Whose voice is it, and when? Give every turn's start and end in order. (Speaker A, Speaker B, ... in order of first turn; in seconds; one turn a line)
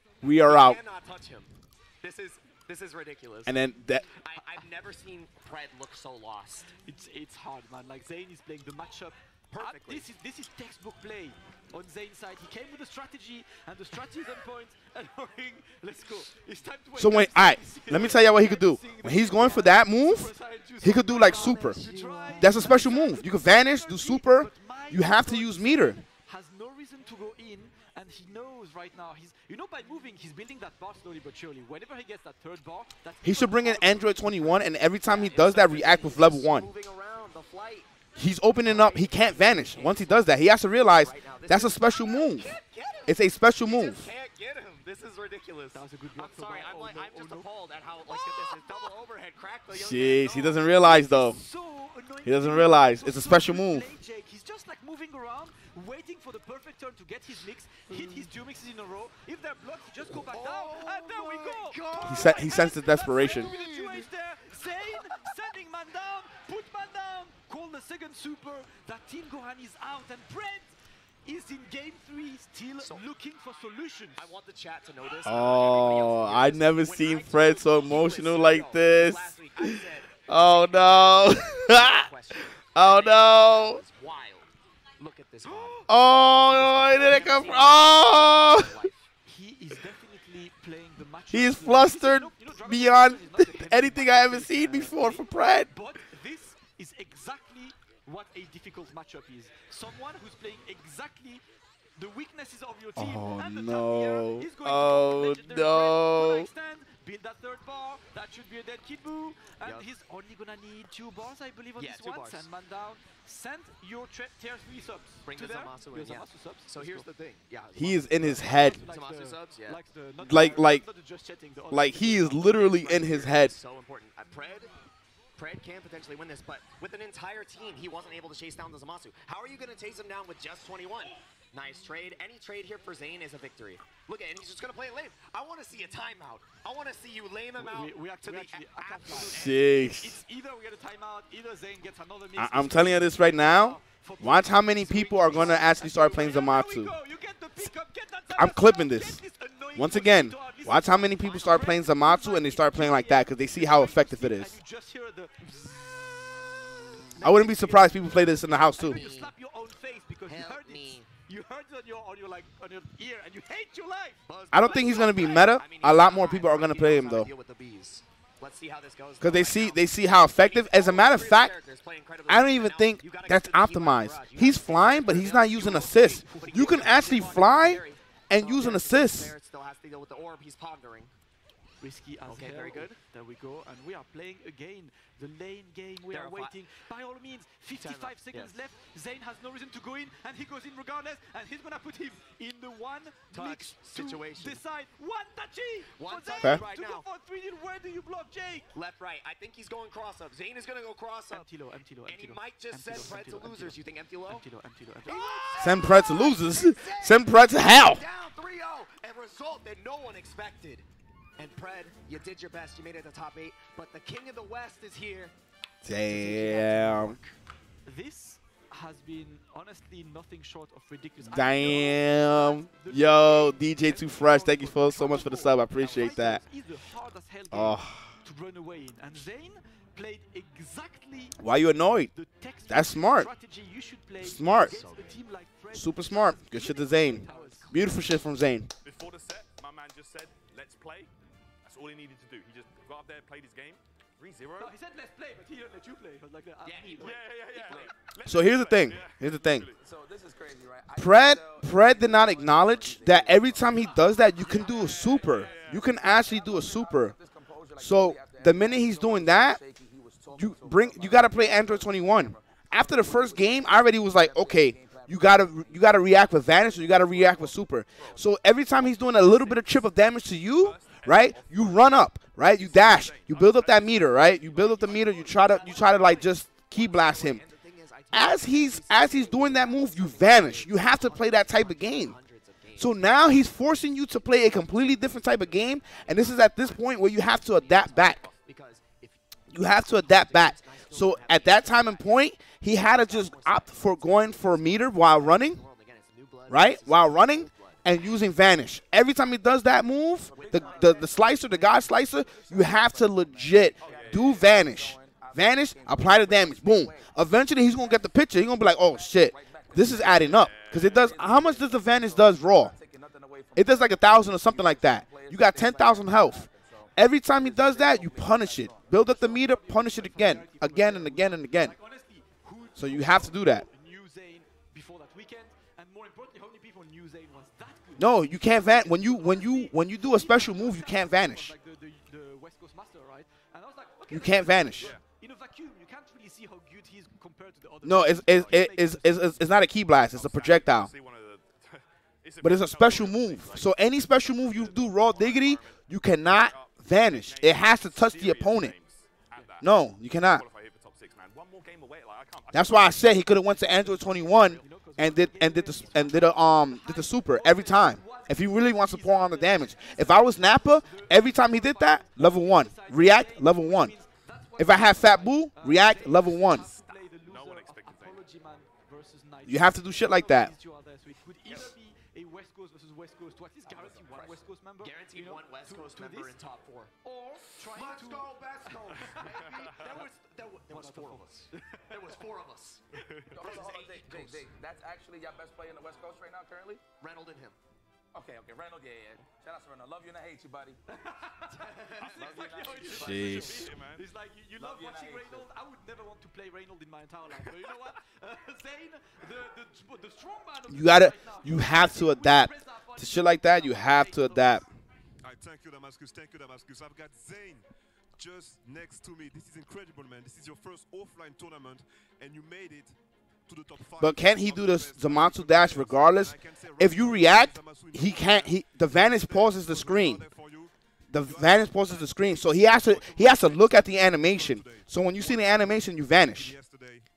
Speaker A: 0.2-0.8
Speaker B: 0.4-6.7
Speaker A: 3.5-4.1
Speaker C: 6.8-34.6
Speaker B: 9.5-10.1
Speaker A: 17.0-21.8
Speaker B: 21.0-22.8
Speaker A: 22.4-26.0
Speaker A: 33.2-36.7
Speaker B: 35.0-37.9
Speaker A: 38.2-42.5
Speaker B: 38.6-40.3
Speaker B: 41.0-50.8
Speaker A: 43.1-44.1
Speaker C: 45.7-47.5
Speaker C: 48.1-48.9
Speaker A: 49.7-51.4
Speaker C: 51.0-70.7
Speaker A: 52.2-53.9
Speaker B: 60.2-64.1
Speaker A: 62.0-63.5
Speaker B: 64.9-65.3
Speaker C: 71.2-74.2
Speaker B: 74.2-89.1
Speaker A: 75.2-82.1
Speaker A: 82.7-83.8
Speaker C: 85.5-85.9
Speaker A: 85.9-88.9
Speaker C: 89.3-101.4
Speaker A: 91.3-95.7
Speaker C: 102.0-117.1
Speaker A: 103.0-106.5
Speaker B: 109.6-109.9
Speaker B: 111.8-112.5
Speaker B: 115.2-119.8
Speaker A: 117.8-118.8
Speaker C: 118.2-122.5
Speaker A: 120.2-120.8
Speaker A: 121.7-123.5
Speaker B: 122.4-124.7
Speaker B: 125.4-139.6
Speaker C: 137.6-155.9
Speaker A: 139.2-140.2
Speaker A: 142.4-146.9
Speaker A: 148.3-149.2
Speaker A: 149.8-154.6
Speaker C: 157.1-164.2
Speaker A: 157.2-159.0
Speaker B: 158.8-159.3
Speaker B: 160.3-161.1
Speaker B: 164.3-181.1
Speaker A: 164.5-167.3
Speaker A: 169.2-171.5
Speaker A: 172.3-179.3
Speaker C: 175.9-177.1
Speaker C: 181.8-198.7
Speaker B: 182.3-182.9
Speaker B: 186.1-186.6
Speaker B: 187.8-188.5
Speaker B: 193.3-194.6
Speaker B: 196.0-197.1
Speaker B: 198.7-201.5
Speaker C: 201.3-206.0
Speaker B: 202.1-204.4
Speaker B: 205.1-210.8
Speaker A: 205.6-208.0
Speaker B: 211.4-215.3
Speaker A: 215.8-217.2
Speaker B: 216.1-217.3
Speaker C: 217.8-231.4
Speaker A: 221.2-226.4
Speaker A: 227.5-228.2
Speaker A: 231.4-232.1
Speaker C: 232.1-237.7
Speaker A: 232.7-233.3
Speaker A: 234.2-234.8
Speaker B: 234.7-235.2
Speaker A: 235.7-238.7
Speaker D: 238.8-241.1
Speaker D: 241.6-244.7
Speaker C: 244.6-247.2
Speaker B: 246.7-247.9
Speaker D: 247.0-249.8
Speaker E: 247.7-247.9
Speaker A: 248.3-249.7
Speaker E: 249.8-268.2
Speaker A: 251.0-257.2
Speaker D: 254.4-255.9
Speaker A: 257.8-259.6
Speaker A: 260.4-277.4
Speaker D: 269.0-269.8
Speaker D: 270.6-276.3
Speaker B: 275.0-283.4
Speaker A: 278.1-282.2
Speaker A: 282.8-288.3
Speaker B: 286.0-286.4
Speaker B: 287.4-289.2
Speaker A: 289.5-295.6
Speaker B: 289.8-292.2
Speaker B: 292.8-297.9
Speaker A: 296.5-312.8
Speaker B: 300.3-301.2
Speaker E: 300.3-319.2
Speaker D: 303.8-304.4
Speaker D: 310.3-311.0
Speaker A: 313.6-321.8
Speaker C: 318.9-339.4
Speaker A: 322.8-323.7
Speaker A: 328.0-331.5
Speaker A: 334.1-334.9
Speaker D: 334.8-335.0
Speaker A: 337.9-340.9
Speaker D: 340.1-353.1
Speaker A: 342.4-348.7
Speaker A: 349.6-350.4
Speaker A: 352.5-363.9
Speaker C: 353.9-376.4
Speaker A: 364.6-366.7
Speaker D: 367.3-368.2
Speaker A: 369.5-370.5
Speaker E: 373.7-374.0
Speaker B: 374.1-376.9
Speaker C: 377.0-380.1
Speaker B: 377.6-382.8
Speaker D: 379.2-379.7
Speaker C: 380.7-382.2
Speaker E: 383.3-386.8
Speaker B: 383.4-384.5
Speaker B: 387.0-387.6
Speaker E: 388.1-390.8
Speaker C: 390.9-404.7
Speaker E: 391.8-393.6
Speaker D: 392.0-394.0
Speaker A: 392.9-393.7
Speaker E: 394.6-395.5
Speaker A: 400.7-404.6
Speaker F: 405.2-407.6
Speaker F: 408.2-418.5
Speaker A: 414.0-420.2
Speaker D: 414.7-416.3
Speaker D: 418.0-418.4
Speaker F: 419.1-420.7
Speaker D: 419.7-420.5
Speaker A: 421.1-426.6
Speaker F: 421.3-424.8
Speaker D: 426.5-427.0
Speaker F: 426.6-427.0